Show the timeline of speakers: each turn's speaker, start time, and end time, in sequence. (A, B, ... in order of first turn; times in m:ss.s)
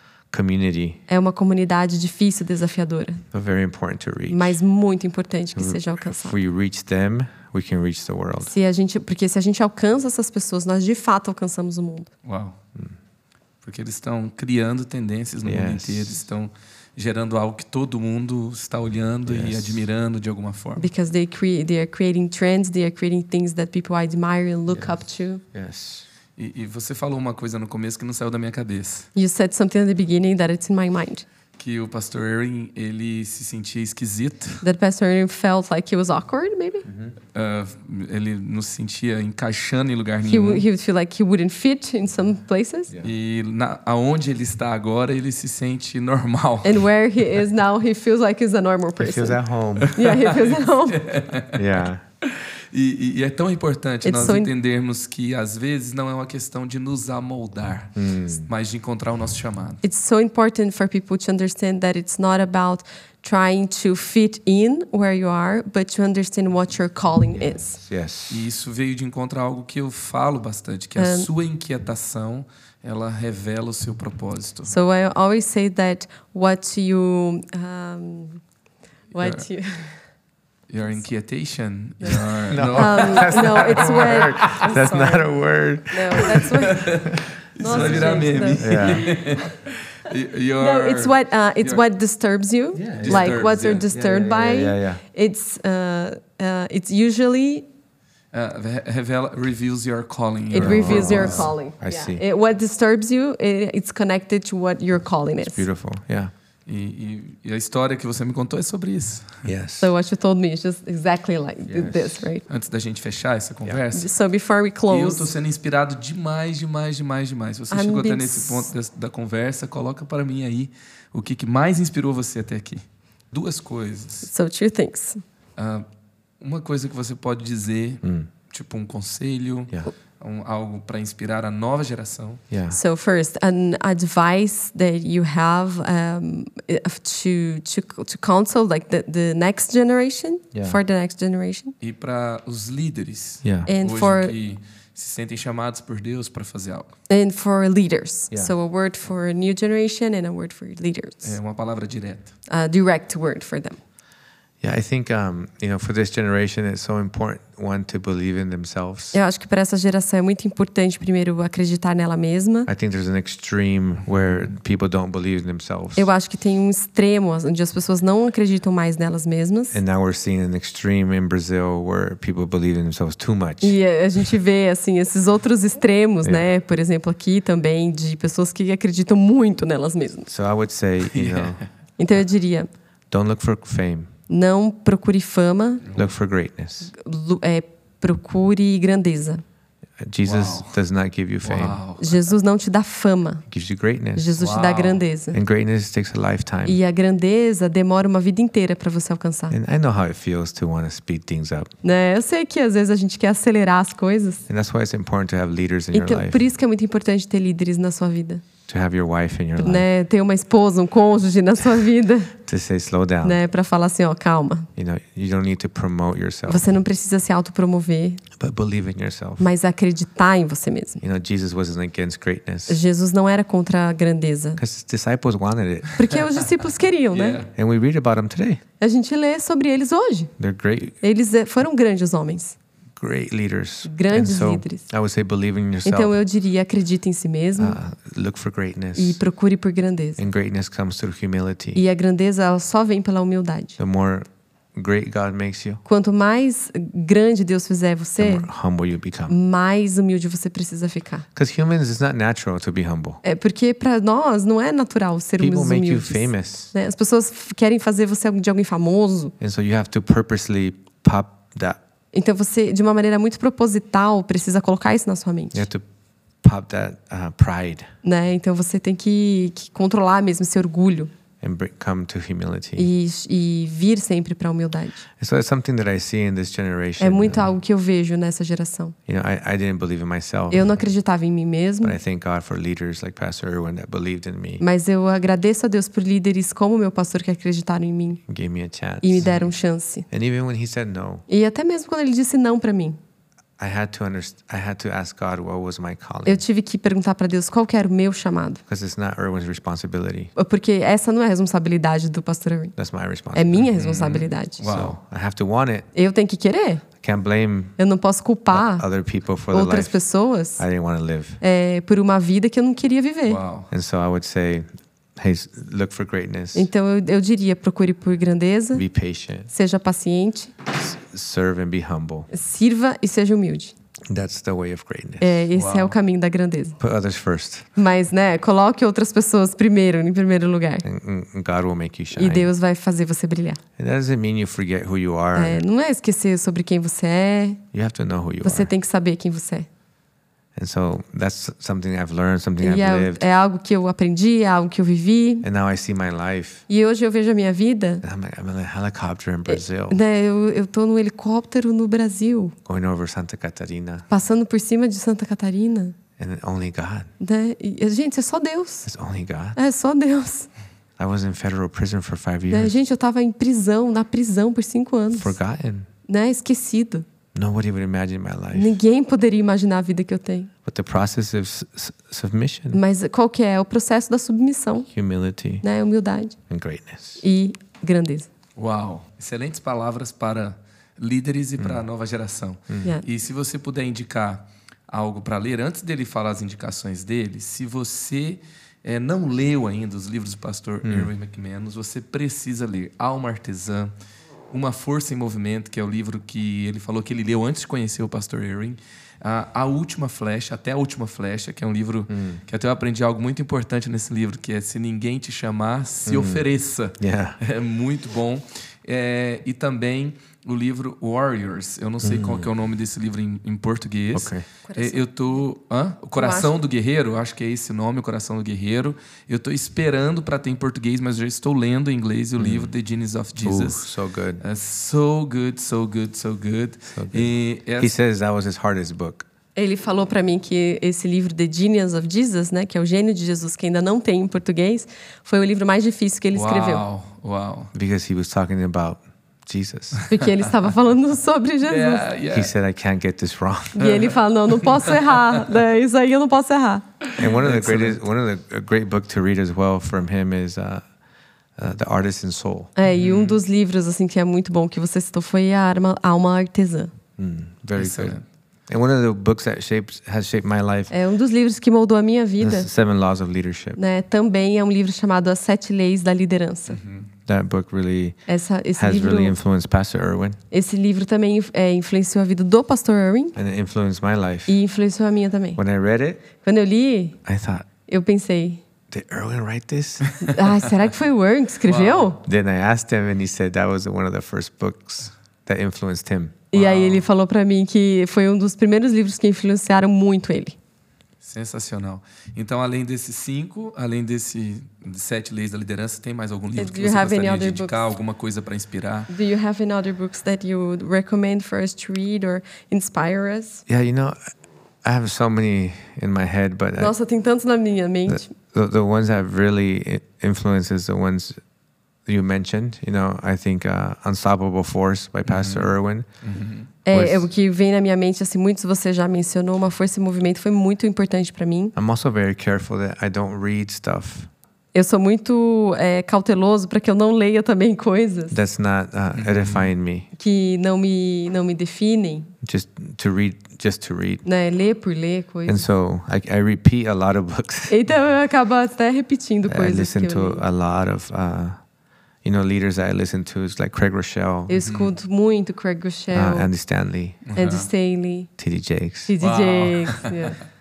0:00.3-0:01.0 A
0:01.1-0:03.2 B
0:03.3-0:04.6 A
0:04.3-0:06.4 B
0:05.6-0:08.5 A
0:08.4-0:12.1 B
0:12.2-0:12.6 C
0:13.6-0:20.9 C
0:15.4-0:16.2 A
0:19.2-0:19.8 A
0:20.8-0:25.4 B
0:24.7-0:24.9 A
0:25.5-0:26.0 A
0:26.4-0:29.1 C
0:29.1-0:31.2 B
0:31.6-0:34.6 C
0:34.6-0:36.9 B
0:36.9-0:37.1 A
0:37.3-0:40.6 C
0:40.3-0:42.9 B
0:43.0-0:46.8 C
0:46.6-0:49.4 B
0:49.0-0:49.9 A
0:49.8-0:51.6 C
0:49.9-0:51.0 B
0:51.5-0:52.0 A
0:52.2-0:57.9 C
0:54.0-0:54.5 B
0:58.0-0:58.5 A
0:58.4-0:59.8 C
0:59.8-1:07.8 B
1:07.8-1:08.4 A
1:08.3-1:14.7 C
1:11.0-1:11.3 B
1:14.7-1:18.4 B
1:19.1-1:20.0 B
1:20.7-1:24.7 C
1:22.0-1:25.3 B
1:22.5-1:29.1 A
1:25.9-1:27.0 B
1:26.3-1:31.8 C
1:27.6-1:29.1 B
1:30.6-1:37.6 B
1:32.7-1:35.0 A
1:32.9-1:34.0 C
1:38.3-1:41.5 C
1:40.5-1:45.6 B
1:40.5-1:42.2 A
1:45.4-1:46.3 A
1:46.6-1:49.5 C
1:49.4-1:49.9 A
1:49.8-1:52.4 B
1:51.7-1:52.2 A
1:52.5-1:54.1 C
1:53.9-1:55.3 B
1:54.9-2:04.3 C
1:57.7-1:58.7 B
2:04.2-2:05.2 B
2:05.6-2:05.8 C
2:06.4-2:12.4 C
2:08.0-2:08.3 A
2:12.5-2:12.8 A
2:12.7-2:21.7 B
2:21.8-2:26.9 C
2:23.7-2:24.3 B
2:27.1-2:31.3 B
2:31.2-2:32.3 C
2:32.5-2:33.8 B
2:34.6-2:39.2 A
2:39.1-2:42.7 B
2:42.6-2:46.1 A
2:46.0-2:49.8 B
2:49.7-2:53.8 A
2:53.6-3:00.3 B
3:00.3-3:01.6 A
3:01.1-3:01.6 C
3:02.0-3:02.7 B
3:03.1-3:04.1 A
3:04.3-3:05.9 B
3:05.9-3:06.9 A
3:06.9-3:09.4 B
3:10.0-3:11.8 A
3:10.2-3:10.7 C
3:11.4-3:12.2 C
3:12.0-3:13.4 B
3:13.5-3:14.4 A
3:14.1-3:15.4 B
3:14.4-3:15.0 C
3:15.3-3:16.8 A
3:16.6-3:19.6 B
3:19.5-3:21.7 A
3:21.8-3:24.4 B
3:24.5-3:26.4 A
3:25.9-3:28.4 B
3:28.7-3:29.9 A
3:29.6-3:32.3 B
3:32.4-3:33.4 A
3:33.2-3:34.7 B
3:34.8-3:36.7 A
3:36.4-3:38.2 B
3:38.4-3:39.5 A
3:39.4-3:41.0 B
3:41.0-3:42.8 A
3:42.7-3:44.6 B
3:44.6-3:45.9 A
3:46.0-3:47.4 B
3:47.1-3:47.5 C
3:47.5-3:48.6 A
3:48.8-3:50.3 B
3:50.4-3:51.0 A
3:51.0-3:52.6 B
3:53.0-3:56.2 A
3:53.9-3:54.8 B
3:55.8-3:57.8 B
3:57.6-3:59.2 A
3:59.0-4:00.2 B
4:00.2-4:01.8 A
4:01.7-4:03.8 B
4:03.8-4:05.8 A
4:05.8-4:08.5 B
4:08.2-4:09.3 A
4:09.3-4:11.2 B
4:11.3-4:13.2 A
4:13.2-4:19.3 B
4:15.4-4:16.7 A
4:19.4-4:21.8 A
4:22.1-4:25.7 B
4:25.5-4:25.8 A
4:26.4-4:27.9 A
4:28.0-4:31.1 B
4:31.4-4:32.9 A
4:32.8-4:35.0 B
4:35.2-4:37.5 A
4:37.0-4:38.9 B
4:39.0-4:40.8 A
4:40.5-4:42.0 B
4:41.8-4:44.6 A
4:44.6-4:48.2 B
4:48.3-4:49.5 A
4:49.0-4:50.1 B
4:50.1-4:51.2 A
4:51.3-4:53.0 B
4:53.6-4:56.4 A
4:56.2-4:58.6 B
4:58.7-5:00.3 A
5:00.4-5:02.7 B
5:02.8-5:03.6 A
5:03.3-5:04.6 B
5:03.7-5:05.0 C
5:04.6-5:05.9 A
5:05.9-5:06.8 B
5:07.0-5:07.7 A
5:07.8-5:08.8 B
5:08.5-5:10.0 A
5:09.5-5:10.6 B
5:10.6-5:11.4 A
5:11.4-5:13.4 B
5:13.2-5:13.7 C
5:13.7-5:16.7 A
5:16.5-5:18.8 B
5:18.7-5:19.5 A
5:19.5-5:20.5 B
5:20.7-5:22.3 A
5:22.3-5:23.7 B
5:24.1-5:25.4 A
5:25.2-5:26.8 B
5:25.5-5:26.0 C
5:26.8-5:27.7 A
5:27.8-5:30.8 B
5:30.8-5:32.5 A
5:32.1-5:33.6 B
5:33.8-5:35.6 A
5:35.3-5:37.6 B
5:37.7-5:38.7 A
5:38.4-5:39.7 B
5:40.6-5:43.2 A
5:42.6-5:45.4 B
5:45.4-5:46.6 A
5:46.7-5:48.0 B
5:48.0-5:50.0 A
5:49.5-5:52.5 B
5:52.6-5:54.1 A
5:54.1-5:56.0 B
5:56.2-5:57.1 A
5:57.2-5:58.9 B
5:58.8-5:59.6 A
5:59.5-6:00.5 B
6:01.0-6:02.8 A
6:02.5-6:05.4 B
6:05.1-6:05.9 A
6:06.1-6:07.0 B
6:07.3-6:08.8 A
6:08.5-6:10.5 B
6:10.6-6:12.8 A
6:12.7-6:14.9 B
6:14.9-6:15.6 A
6:15.6-6:16.4 B
6:16.5-6:17.2 A
6:17.2-6:18.3 B
6:18.6-6:33.9 C
6:21.6-6:21.8 A
6:30.8-6:31.1 A
6:34.5-7:03.9 C
6:42.1-6:42.4 A
6:46.0-6:46.5 A
6:47.0-6:47.4 A
6:52.0-6:52.5 A
6:54.1-6:54.4 A
6:54.6-6:55.4 B
6:56.2-6:56.5 B
7:02.4-7:02.7 A
7:03.4-7:04.4 A
7:04.4-7:07.9 C
7:06.9-7:09.3 A
7:09.6-7:16.8 B
7:16.3-7:17.7 C
7:17.7-7:20.0 A
7:20.0-7:20.2 C
7:20.1-7:22.1 B
7:21.6-7:22.5 C
7:22.3-7:23.9 A
7:23.7-7:26.8 B
7:23.8-7:25.5 C
7:27.1-7:28.0 C
7:27.2-7:30.8 A
7:31.6-7:32.7 A
7:32.8-7:36.9 B
7:32.9-7:33.4 C
7:37.2-7:38.2 A
7:37.8-7:38.2 C
7:38.7-7:40.9 A
7:40.9-7:42.7 B
7:42.4-7:43.8 A
7:43.8-7:46.8 B
7:46.7-7:47.1 C
7:47.2-7:48.2 A
7:48.3-7:49.4 B
7:48.8-7:50.4 A
7:50.5-7:53.4 B
7:53.3-7:54.6 A
7:54.5-7:55.6 B
7:55.6-7:56.2 A
7:56.4-7:57.2 B
7:57.2-7:57.7 A
7:57.9-7:58.6 B
7:58.9-8:00.2 A
8:00.2-8:02.2 B
8:01.6-8:02.1 C
8:02.2-8:06.4 A
8:06.5-8:10.6 B
8:06.5-8:07.0 C
8:11.2-8:19.1 C
8:16.6-8:17.8 B
8:19.1-8:23.6 B
8:23.7-8:24.2 A
8:24.8-8:26.9 A
8:26.8-8:28.3 B
8:28.1-8:31.4 A
8:32.0-8:36.1 A
8:35.2-8:35.7 C
8:36.2-8:36.7 C
8:36.8-8:41.7 B
8:36.9-8:37.3 A
8:41.8-8:44.3 A
8:44.7-8:48.4 B
8:48.3-8:50.1 A
8:49.1-8:49.7 C
8:50.2-8:52.3 B
8:52.4-8:54.2 A
8:54.2-8:55.7 B
8:55.4-8:57.8 A
8:57.7-9:00.4 B
8:59.5-9:01.6 A
9:02.2-9:04.6 A
9:04.5-9:06.5 B
9:04.6-9:04.9 C
9:06.1-9:07.2 A
9:07.2-9:07.7 C
9:07.3-9:08.3 B
9:08.4-9:09.1 A
9:09.1-9:10.4 B
9:09.2-9:10.3 C